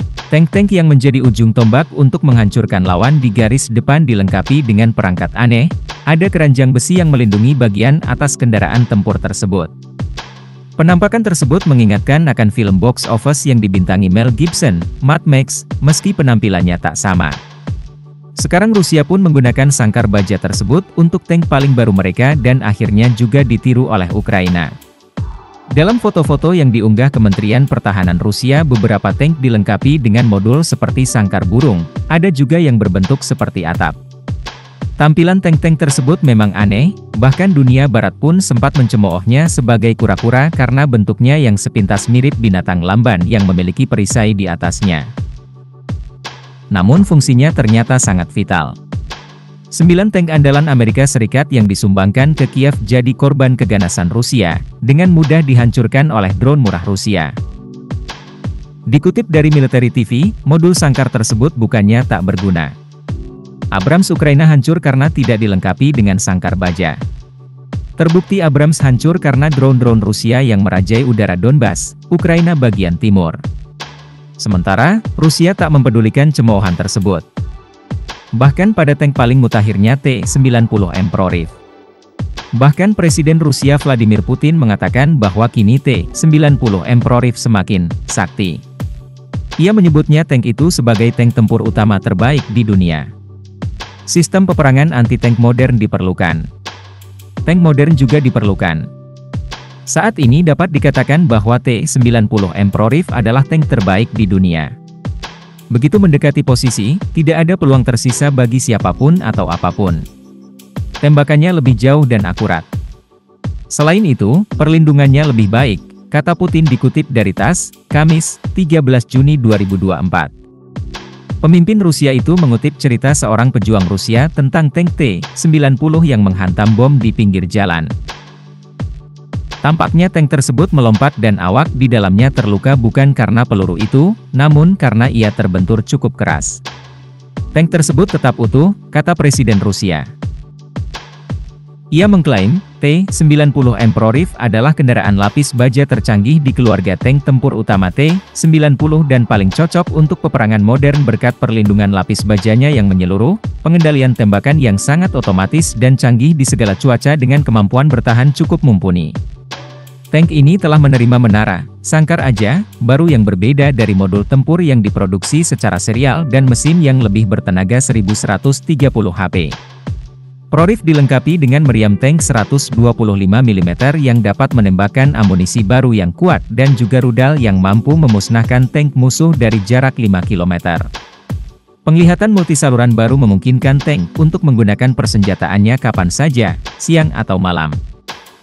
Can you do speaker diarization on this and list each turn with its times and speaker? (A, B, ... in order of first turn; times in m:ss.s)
0:00.3-0:09.7 A
0:10.8-0:17.4 A
0:18.4-0:24.7 A
0:25.7-0:34.0 A
0:35.0-0:45.1 A
0:46.7-0:48.8 A
0:49.7-0:57.4 A
0:58.9-1:02.7 A
1:03.7-1:07.0 A
1:08.0-1:13.4 A
1:14.4-1:17.2 A
1:18.3-1:21.6 A
1:22.6-1:28.6 A
1:29.6-1:33.1 A
1:34.1-1:36.5 A
1:37.4-1:38.9 A
1:39.9-1:44.7 A
1:45.7-1:50.0 A
1:51.0-1:52.7 A
1:53.7-2:00.3 A
2:01.4-2:07.9 A
2:09.6-2:16.6 A
2:17.5-2:20.1 A
2:21.9-2:39.2 A
2:40.1-2:49.6 A
2:50.5-3:00.9 A
3:01.8-3:07.8 A